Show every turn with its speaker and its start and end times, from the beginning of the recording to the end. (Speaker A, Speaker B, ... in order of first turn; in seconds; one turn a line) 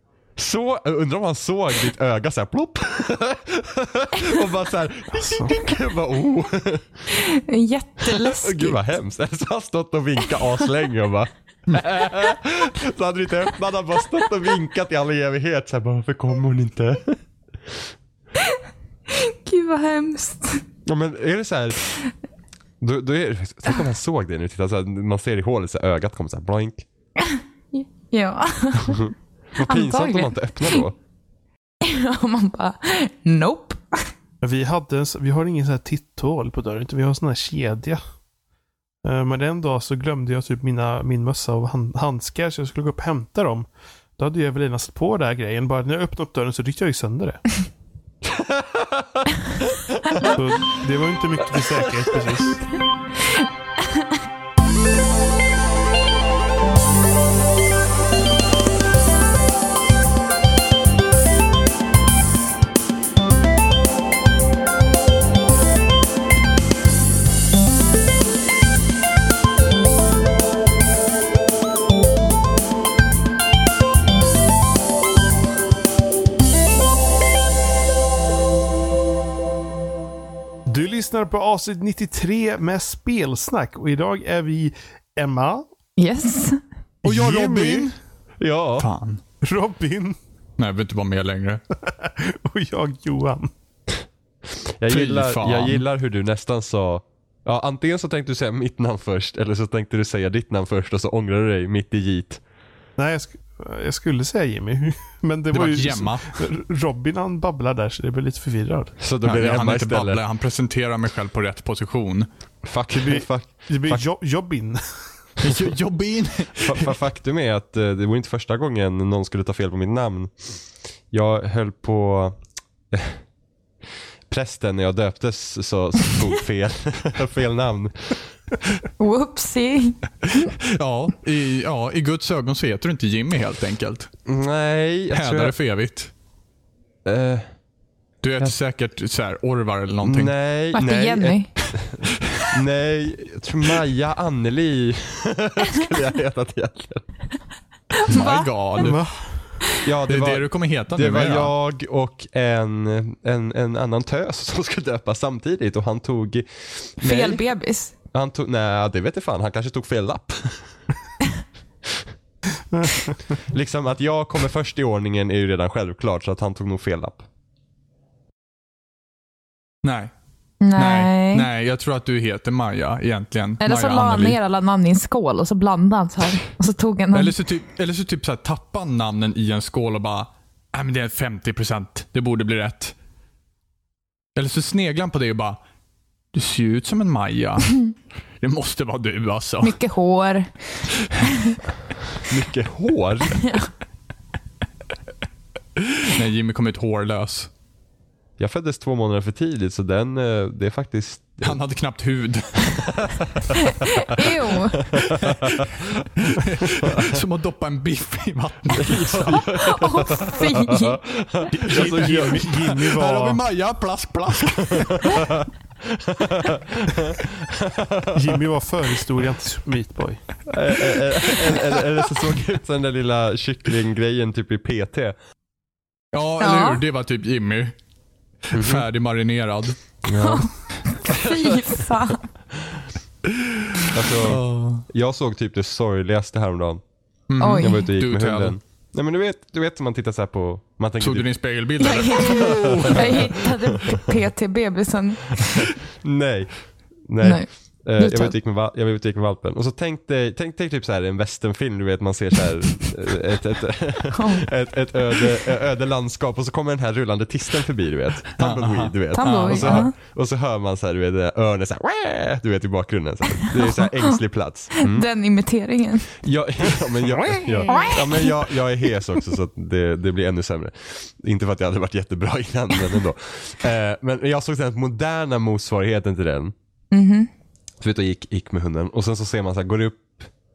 Speaker A: 0.4-7.0
Speaker B: 5.2-5.6
Speaker C: 7.1-8.8
Speaker A: 8.0-17.9
Speaker C: 19.1-20.6
Speaker A: 20.9-22.0
Speaker A: 22.8-26.9
Speaker C: 27.2-30.8
Speaker A: 28.9-31.0
Speaker C: 31.8-34.0
Speaker B: 34.4-38.0
Speaker B: 39.0-43.7
Speaker B: 44.2-47.6
Speaker A: 48.2-50.4
Speaker B: 50.2-52.6
Speaker B: 80.7-85.7
Speaker C: 86.0-86.6
Speaker B: 87.0-87.9
Speaker D: 87.0-88.0
Speaker A: 88.4-88.9
Speaker D: 88.8-89.2
Speaker B: 89.4-90.2
Speaker D: 90.6-91.6
Speaker B: 91.9-93.5
Speaker A: 94.6-102.4
Speaker D: 94.9-95.8
Speaker B: 103.0-109.0
Speaker D: 105.5-106.4
Speaker A: 109.0-110.2
Speaker D: 109.2-112.3
Speaker A: 112.6-114.1
Speaker B: 112.9-114.8
Speaker D: 115.4-116.9
Speaker A: 115.4-115.7
Speaker A: 116.6-120.6
Speaker A: 121.1-122.4
Speaker A: 122.9-123.2
Speaker A: 124.3-128.3
Speaker C: 129.0-130.4
Speaker D: 130.8-134.1
Speaker A: 134.3-135.5
Speaker D: 135.1-136.1
Speaker A: 137.1-137.5
Speaker D: 138.2-140.3
Speaker A: 140.0-147.0
Speaker C: 140.7-141.5
Speaker D: 142.0-142.4
Speaker C: 148.0-148.5
Speaker D: 148.1-149.0
Speaker B: 148.8-149.4
Speaker A: 149.8-157.4
Speaker D: 150.1-151.5
Speaker C: 157.0-157.9
Speaker A: 158.1-160.7
Speaker B: 162.7-163.2
Speaker A: 163.5-167.2
Speaker D: 169.8-170.1
Speaker C: 170.6-171.5
Speaker D: 170.8-174.4
Speaker C: 173.6-177.3
Speaker D: 177.1-182.9
Speaker D: 184.4-185.6
Speaker D: 186.3-187.9
Speaker D: 188.4-189.8
Speaker C: 189.6-190.6
Speaker C: 191.2-191.6
Speaker A: 192.2-193.4
Speaker D: 195.8-197.5
Speaker A: 198.4-201.6
Speaker D: 201.4-203.4
Speaker C: 204.0-204.8
Speaker A: 204.9-205.3
Speaker D: 205.0-209.4
Speaker A: 208.8-212.7
Speaker C: 209.2-211.0
Speaker D: 211.6-215.3
Speaker B: 211.7-213.4
Speaker A: 215.0-218.4
Speaker B: 218.1-220.2
Speaker A: 220.5-225.2
Speaker D: 226.1-227.8
Speaker C: 226.4-226.8
Speaker D: 228.5-229.8
Speaker A: 228.5-228.9
Speaker A: 230.1-230.5
Speaker C: 230.2-232.3
Speaker D: 233.7-234.8
Speaker A: 233.9-236.8
Speaker D: 237.3-238.6
Speaker C: 237.4-237.8
Speaker A: 237.5-241.3
Speaker D: 241.0-243.3
Speaker C: 241.8-245.7
Speaker A: 242.8-243.4
Speaker A: 245.4-265.1
Speaker C: 247.2-248.3
Speaker C: 254.1-254.5
Speaker D: 258.4-259.9
Speaker C: 259.1-259.9
Speaker C: 263.5-264.2
Speaker C: 264.8-266.1
Speaker A: 266.2-276.5
Speaker C: 267.7-268.3
Speaker C: 276.9-277.3
Speaker A: 277.8-280.3